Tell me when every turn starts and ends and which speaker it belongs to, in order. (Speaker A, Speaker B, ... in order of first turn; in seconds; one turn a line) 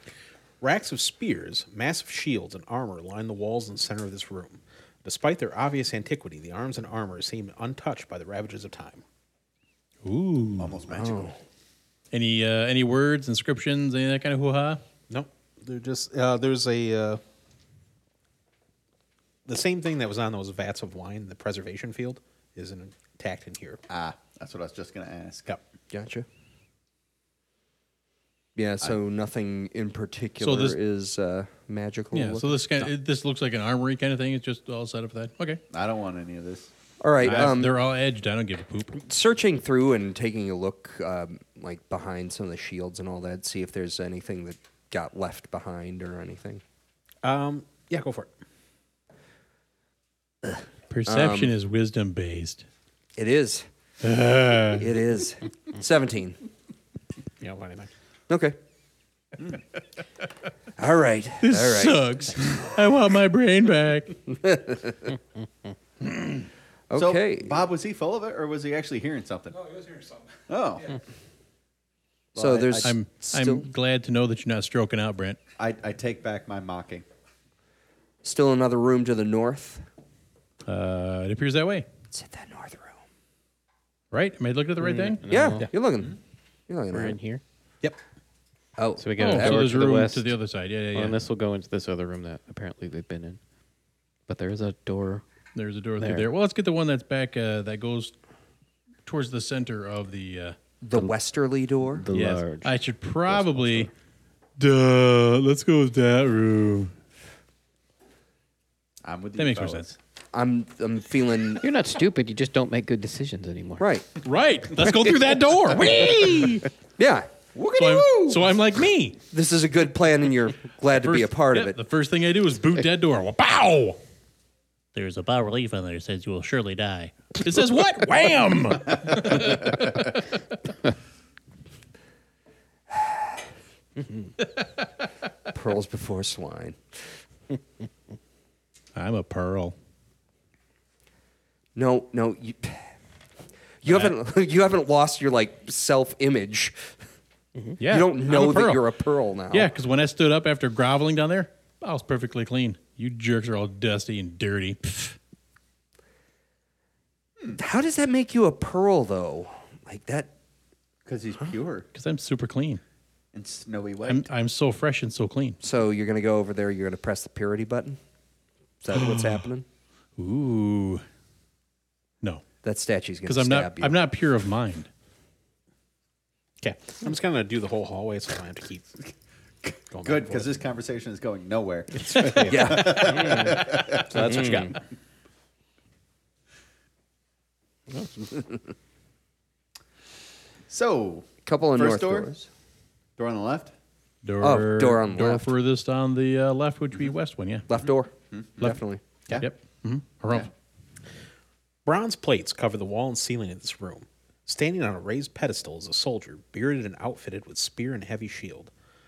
Speaker A: 0.6-9.0
Speaker B: 10.0-10.8
Speaker C: 10.6-11.3
Speaker D: 10.9-11.4
Speaker B: 12.1-14.8
Speaker A: 15.1-17.2
Speaker A: 19.5-23.8
Speaker C: 23.9-25.5
Speaker D: 25.9-26.3
Speaker D: 28.6-32.9
Speaker B: 30.4-30.8
Speaker B: 32.1-35.6
Speaker C: 35.7-36.7
Speaker D: 37.0-37.8
Speaker B: 37.2-39.0
Speaker D: 39.0-46.6
Speaker A: 47.2-48.3
Speaker D: 50.5-51.5
Speaker B: 50.9-52.7
Speaker D: 53.2-53.7
Speaker B: 54.0-54.9
Speaker D: 54.8-56.4
Speaker A: 57.4-57.9
Speaker D: 58.3-58.6
Speaker D: 60.8-62.1
Speaker B: 61.4-64.2
Speaker D: 64.3-65.2
Speaker B: 66.1-66.3
Speaker D: 66.9-67.6
Speaker C: 66.9-70.0
Speaker C: 70.5-71.0
Speaker C: 72.3-72.9
Speaker D: 72.4-73.7
Speaker B: 72.8-75.4
Speaker C: 75.6-77.0
Speaker D: 78.2-79.8
Speaker B: 80.7-81.9
Speaker D: 82.1-83.0
Speaker B: 84.1-85.2
Speaker E: 84.8-85.7
Speaker D: 85.3-86.2
Speaker D: 86.7-87.2
Speaker E: 86.9-87.4
Speaker D: 88.8-89.9
Speaker E: 89.0-90.4
Speaker B: 89.2-91.2
Speaker E: 90.9-93.4
Speaker E: 94.3-95.2
Speaker B: 95.5-98.1
Speaker E: 96.0-96.3
Speaker B: 99.1-100.6
Speaker D: 100.8-102.1
Speaker E: 102.0-103.9
Speaker B: 102.1-103.9
Speaker B: 104.6-106.9
Speaker C: 109.0-109.9
Speaker B: 109.4-110.0
Speaker D: 110.3-111.6
Speaker E: 111.6-113.9
Speaker D: 113.8-114.1
Speaker B: 114.2-116.7
Speaker D: 117.0-117.3
Speaker C: 117.5-118.4
Speaker B: 117.8-119.2
Speaker D: 119.3-121.8
Speaker B: 121.0-124.0
Speaker B: 124.9-130.2
Speaker C: 129.4-129.7
Speaker B: 134.4-134.7
Speaker D: 135.5-136.8
Speaker B: 138.9-139.8
Speaker D: 141.8-142.9
Speaker D: 143.8-147.0
Speaker B: 143.9-144.1
Speaker B: 147.8-148.9
Speaker D: 147.9-149.7
Speaker B: 149.5-154.8
Speaker D: 157.6-160.3
Speaker C: 161.1-161.9
Speaker B: 161.9-162.8
Speaker C: 163.3-164.3
Speaker B: 164.1-165.6
Speaker D: 165.6-168.0
Speaker D: 168.8-169.7
Speaker B: 168.9-169.4
Speaker B: 170.2-171.0
Speaker D: 172.6-174.0
Speaker B: 173.3-174.9
Speaker A: 176.6-178.9
Speaker C: 179.6-184.4
Speaker A: 179.9-180.6
Speaker A: 181.9-183.0
Speaker D: 182.5-183.2
Speaker E: 183.2-183.6
Speaker A: 183.9-184.8
Speaker E: 184.2-184.7
Speaker C: 190.7-192.3
Speaker D: 191.4-192.5
Speaker C: 193.2-193.7
Speaker B: 194.2-197.7
Speaker D: 194.4-195.5
Speaker D: 197.7-199.0
Speaker C: 197.8-198.8
Speaker B: 199.3-200.5
Speaker A: 201.8-208.7